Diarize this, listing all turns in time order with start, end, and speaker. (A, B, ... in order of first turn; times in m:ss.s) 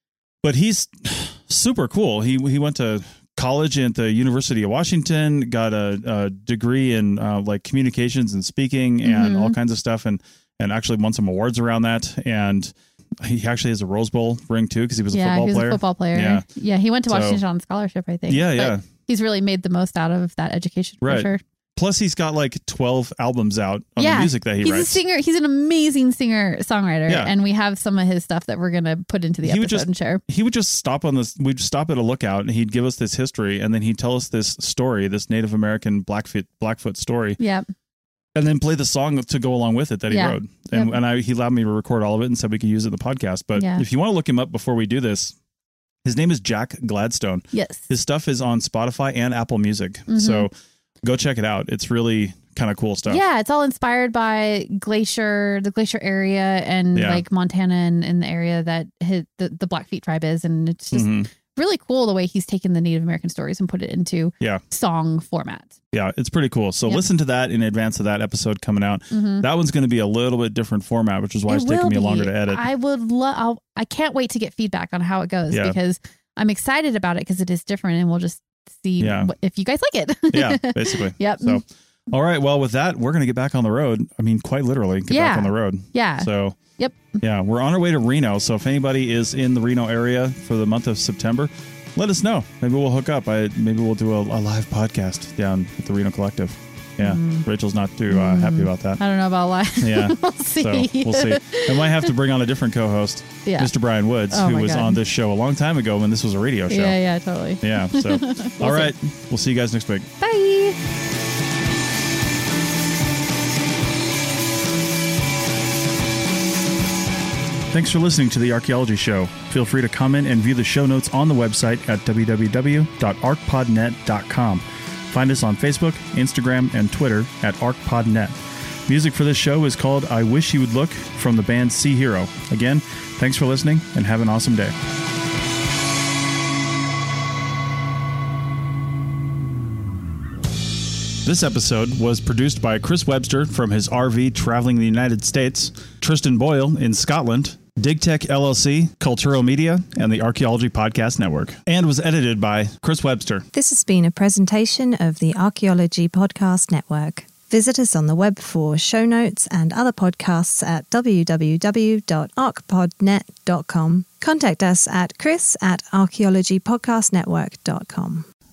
0:00.4-0:16.4 A
0:09.0-0:09.6 B
0:15.1-0:21.4 B
0:17.1-0:17.4 A
0:18.3-0:18.8 A
0:21.0-0:25.0 A
0:24.0-0:30.2 B
0:27.1-0:27.3 A
0:29.4-0:37.4 A
0:37.4-0:37.6 B
0:38.3-0:45.4 A
0:40.1-0:41.0 B
0:43.6-0:43.8 B
0:46.0-0:50.5 A
0:47.5-0:47.9 B
0:50.1-0:50.5 B
0:51.0-0:53.2 A
0:53.1-1:05.8 B
0:56.9-0:57.2 A
1:00.9-1:01.3 A
1:05.9-1:12.7 A
1:09.1-1:09.4 B
1:11.5-1:21.6 B
1:15.5-1:15.8 A
1:19.0-1:19.3 A
1:20.3-1:26.6 A
1:25.1-1:27.2 B
1:27.2-1:39.0 A
1:37.0-1:37.4 B
1:38.1-1:42.1 B
1:39.8-1:47.0 A
1:43.4-1:43.7 B
1:44.3-1:45.0 B
1:46.7-1:48.9 B
1:47.6-1:50.1 A
1:50.2-1:50.8 B
1:57.7-2:14.8 A
2:21.2-2:33.5 A
2:33.5-2:48.2 C